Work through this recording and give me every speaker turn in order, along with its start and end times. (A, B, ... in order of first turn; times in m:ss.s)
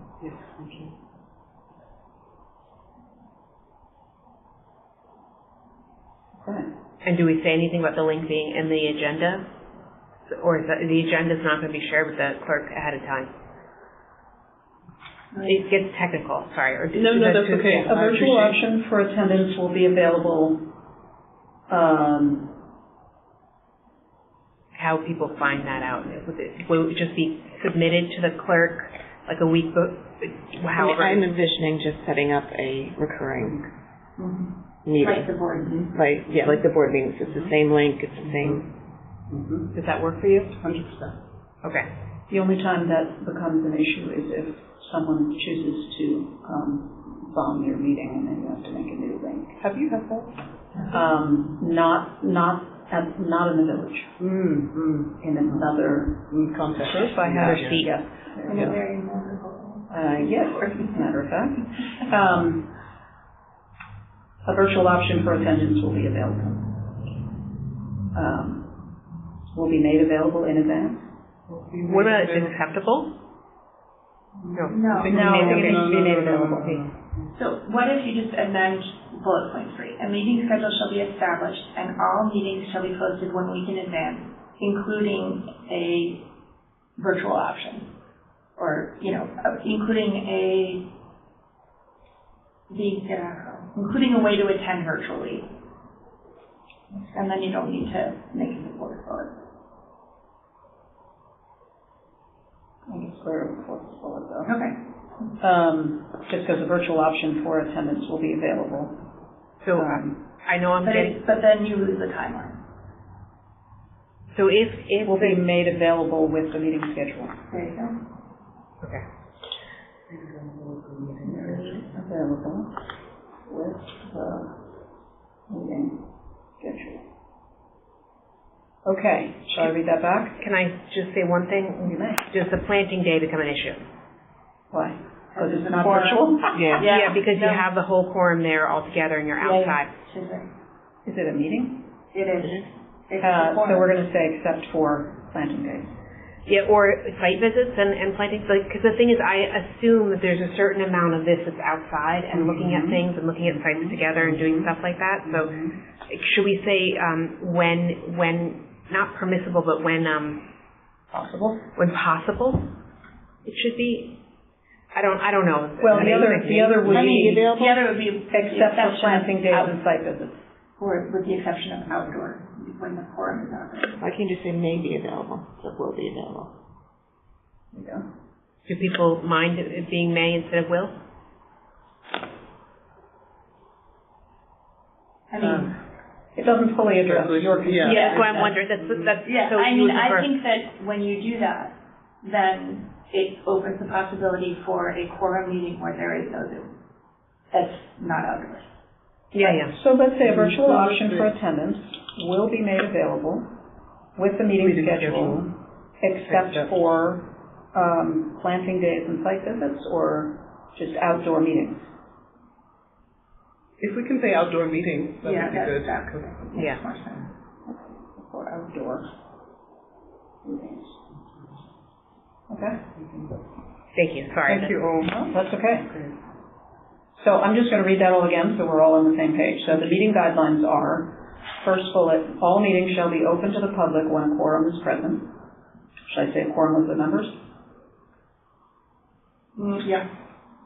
0:00.4-0:00.9 A
0:06.4-0:06.7 B
0:07.0-0:09.4 C
0:10.3-0:13.3 C
0:15.3-0:15.6 D
0:15.4-0:17.9 C
0:16.9-0:18.6 A
0:17.8-0:20.6 B
0:21.7-0:22.5 B
0:24.7-0:31.2 C
0:30.8-0:33.6 E
0:34.2-0:35.8 D
0:34.8-0:35.4 E
0:35.6-0:35.9 A
0:35.9-0:38.6 E
0:39.3-0:39.7 A
0:39.7-0:40.5 C
0:40.6-0:41.2 A
0:42.3-0:49.6 B
0:49.6-0:50.3 A
0:50.9-0:58.7 B
0:54.3-0:55.1 A
0:56.3-0:57.8 A
0:57.4-0:57.9 C
0:58.4-1:01.0 D
0:59.9-1:02.7 B
1:04.4-1:06.8 B
1:08.1-1:08.8 B
1:09.5-1:11.1 B
1:11.5-1:12.6 A
1:11.8-1:13.1 C
1:14.4-1:17.3 A
1:14.6-1:16.2 C
1:14.7-1:15.2 D
1:15.0-1:16.9 B
1:17.3-1:26.2 D
1:27.0-1:27.9 D
1:28.6-1:30.8 D
1:32.7-1:35.5 D
1:36.9-1:39.3 D
1:42.9-1:44.6 B
1:44.4-1:44.8 D
1:45.4-1:48.9 B
1:49.6-1:51.2 C
1:49.7-1:50.2 B
1:50.8-1:52.6 D
1:54.3-1:55.5 C
1:55.0-1:57.4 B
1:57.5-1:58.0 D
2:00.7-2:01.1 A
2:01.2-2:02.8 B
2:03.5-2:04.6 B
2:05.5-2:06.0 B
2:06.6-2:07.0 B
2:08.8-2:10.4 B
2:10.4-2:13.8 C
2:11.8-2:12.2 B
2:14.7-2:16.8 B
2:15.3-2:17.7 D
2:16.6-2:16.9 E
2:16.8-2:19.9 C
2:19.4-2:20.5 D
2:21.0-2:21.8 B
2:22.1-2:24.0 D
2:23.2-2:26.0 B
2:26.5-2:40.4 C
2:32.3-2:33.1 B
2:33.7-2:35.8 B
2:41.1-2:41.6 B
2:41.8-2:42.7 C
2:43.4-2:44.2 C
2:44.9-2:47.0 C
2:45.8-2:47.5 B
2:46.8-2:47.8 E
2:46.9-2:49.8 D
2:48.3-2:50.4 B
2:50.8-2:54.0 D
2:54.0-2:56.5 E
2:57.7-2:58.0 B
2:58.7-3:00.9 C
3:05.3-3:05.8 D
3:05.4-3:05.7 A
3:06.4-3:08.4 B
3:07.0-3:09.2 A
3:07.8-3:10.4 C
3:07.8-3:08.5 D
3:09.2-3:16.7 D
3:17.5-3:18.6 D
3:19.4-3:19.7 C
3:19.4-3:23.4 B
3:20.2-3:21.3 A
3:24.2-3:31.9 B
3:24.6-3:25.4 A
3:33.8-3:36.6 A
3:35.2-3:37.3 D
3:37.7-3:39.1 B
3:40.4-3:41.0 B
3:42.5-3:43.0 B
3:43.9-3:44.8 C
3:44.5-3:45.4 A
3:45.1-3:45.9 B
3:47.2-3:55.4 B
3:56.1-3:57.3 B
3:59.6-4:00.1 D